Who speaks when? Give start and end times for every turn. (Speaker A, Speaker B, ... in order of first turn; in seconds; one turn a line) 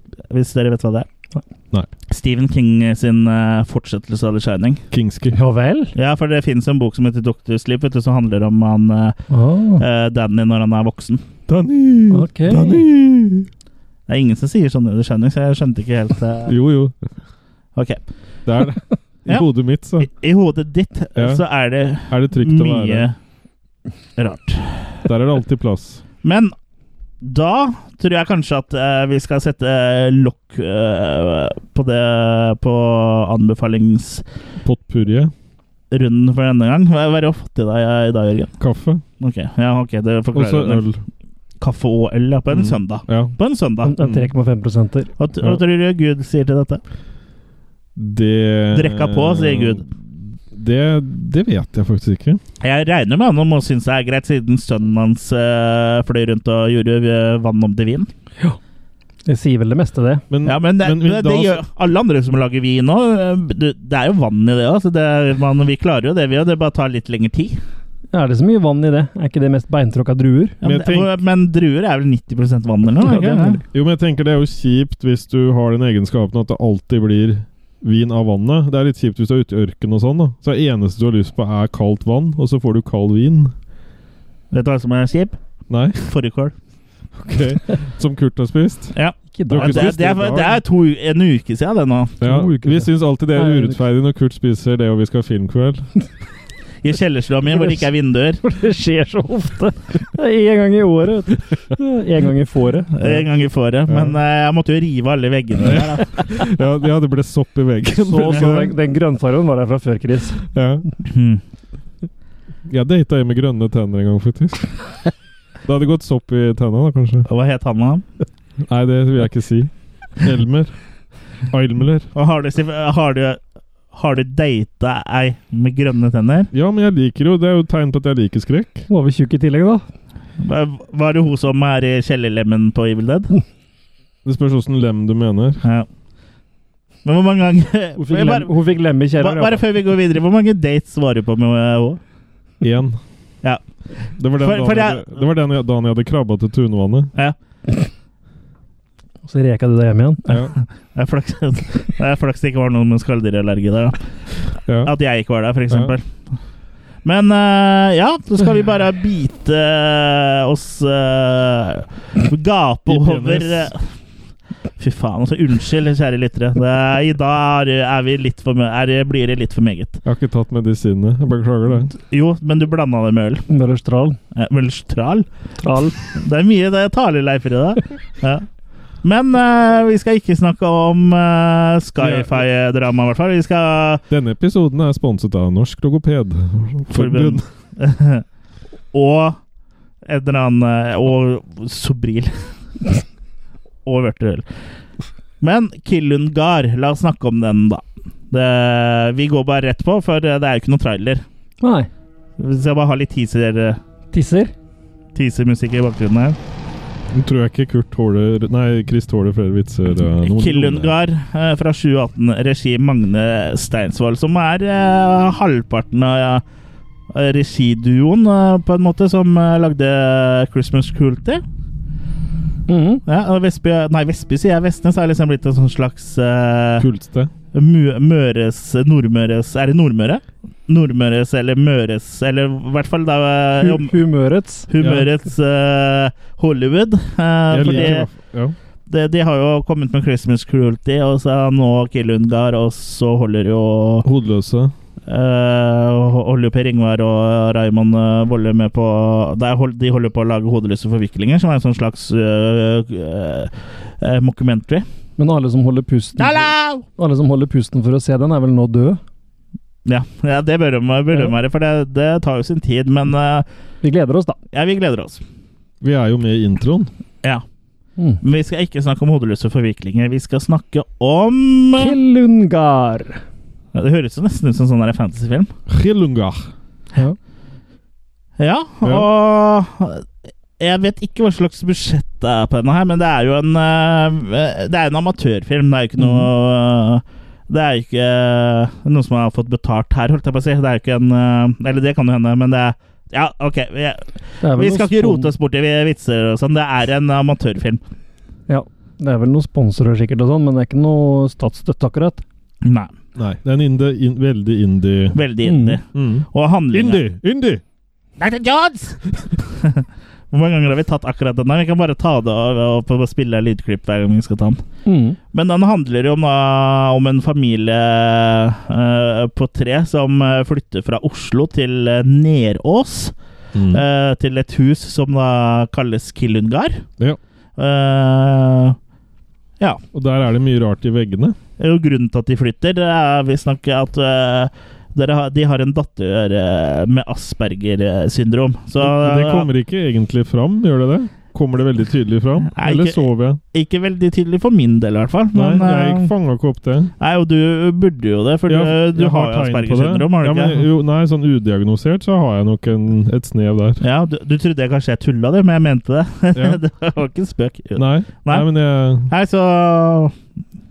Speaker A: 0.3-1.1
Speaker A: 2.1-4.8
Speaker B: 4.9-5.3
Speaker C: 5.3-5.9
Speaker A: 5.9-9.2
Speaker C: 9.3-9.8
Speaker A: 9.8-11.2
Speaker B: 11.5-13.5
Speaker C: 12.1-12.8
Speaker A: 14.1-16.5
Speaker B: 16.4-16.9
Speaker A: 17.8-18.0
Speaker B: 18.4-20.1
Speaker A: 20.0-23.1
Speaker B: 21.1-21.4
Speaker B: 22.1-23.1
Speaker A: 24.2-25.0
Speaker B: 25.0-26.0
Speaker A: 26.2-26.5
Speaker A: 27.2-34.2
Speaker B: 34.6-35.3
Speaker A: 35.9-38.5
Speaker B: 38.6-39.0
Speaker A: 39.2-40.9
Speaker B: 40.3-41.0
Speaker A: 41.6-44.0
Speaker B: 42.5-43.3
Speaker C: 43.8-45.1
Speaker B: 44.0-44.3
Speaker A: 45.2-46.8
Speaker B: 48.0-49.8
Speaker A: 48.7-49.8
Speaker B: 50.5-52.4
Speaker A: 52.6-58.1
Speaker C: 59.2-60.2
Speaker B: 60.3-61.6
Speaker A: 60.4-67.6
Speaker C: 68.1-70.6
Speaker A: 70.6-73.6
Speaker B: 70.6-71.1
Speaker C: 73.0-73.6
Speaker B: 73.7-83.5
Speaker A: 84.5-85.4
Speaker B: 85.7-86.0
Speaker A: 86.0-86.5
Speaker B: 87.2-88.9
Speaker A: 88.9-92.2
Speaker C: 89.3-89.9
Speaker B: 89.5-90.6
Speaker B: 92.2-95.9
Speaker C: 92.2-93.8
Speaker A: 96.8-98.4
Speaker C: 97.5-97.8
Speaker C: 98.4-103.2
Speaker A: 102.9-106.4
Speaker B: 103.9-104.2
Speaker B: 105.6-108.7
Speaker C: 108.0-110.5
Speaker B: 110.5-110.8
Speaker A: 111.0-111.4
Speaker B: 112.7-114.7
Speaker B: 115.6-117.3
Speaker A: 117.3-118.0
Speaker B: 118.7-120.7
Speaker B: 121.5-122.1
Speaker A: 122.1-123.4
Speaker A: 123.9-126.5
Speaker B: 126.5-128.8
Speaker C: 128.9-129.8
Speaker A: 130.4-133.3
Speaker B: 134.2-135.6
Speaker A: 137.0-138.5
Speaker C: 138.0-139.6
Speaker A: 139.2-142.0
Speaker B: 142.6-143.0
Speaker B: 144.2-147.1
Speaker A: 144.4-145.1
Speaker C: 149.2-150.4
Speaker B: 150.3-150.5
Speaker A: 150.5-154.0
Speaker B: 154.7-154.9
Speaker A: 154.8-156.1
Speaker A: 157.0-163.8
Speaker B: 162.9-163.7
Speaker A: 164.8-170.0
Speaker B: 170.0-171.9
Speaker A: 171.9-173.4
Speaker C: 173.5-174.2
Speaker A: 174.3-175.3
Speaker C: 175.6-176.0
Speaker A: 176.0-178.4
Speaker A: 179.0-184.0
Speaker B: 182.0-182.4
Speaker B: 184.1-187.4
Speaker A: 186.9-188.2
Speaker A: 188.9-189.4
Speaker A: 190.1-192.4
Speaker A: 193.8-194.4
Speaker A: 195.4-201.2
Speaker C: 201.6-201.9
Speaker A: 202.4-203.8
Speaker C: 204.1-204.5
Speaker A: 205.1-206.4
Speaker B: 207.1-210.9
Speaker A: 210.2-216.4
Speaker A: 217.1-221.4
Speaker C: 222.7-223.0
Speaker A: 223.1-226.9
Speaker B: 226.8-227.3
Speaker A: 227.5-233.9
Speaker C: 233.6-234.7
Speaker A: 234.7-238.1
Speaker B: 234.8-235.1
Speaker B: 237.5-238.5
Speaker C: 237.6-237.9
Speaker A: 238.9-244.1
Speaker B: 244.0-244.7
Speaker A: 245.1-254.8
Speaker C: 255.2-259.0
Speaker A: 256.2-256.8
Speaker A: 259.9-263.4
Speaker C: 263.8-264.4
Speaker A: 264.5-265.2
Speaker B: 265.8-266.9
Speaker A: 268.2-271.9
Speaker C: 271.8-273.2
Speaker A: 273.7-275.5
Speaker B: 275.7-276.5
Speaker A: 278.4-280.0
Speaker A: 280.6-297.8
Speaker C: 286.0-286.3
Speaker C: 294.4-295.3
Speaker C: 298.5-302.2
Speaker A: 302.6-302.9
Speaker B: 303.1-305.2
Speaker A: 305.1-307.0
Speaker C: 305.4-305.8
Speaker B: 305.9-307.6
Speaker A: 308.2-314.6
Speaker C: 314.8-315.2
Speaker A: 315.3-323.1
Speaker B: 323.5-323.8
Speaker A: 323.7-326.9
Speaker A: 327.6-328.8
Speaker B: 329.9-331.4
Speaker A: 331.6-339.5
Speaker B: 338.8-343.4
Speaker A: 342.5-346.1
Speaker B: 345.3-346.9
Speaker A: 347.0-350.6
Speaker B: 348.5-353.8
Speaker A: 353.8-358.5
Speaker B: 357.8-359.1
Speaker A: 359.1-360.1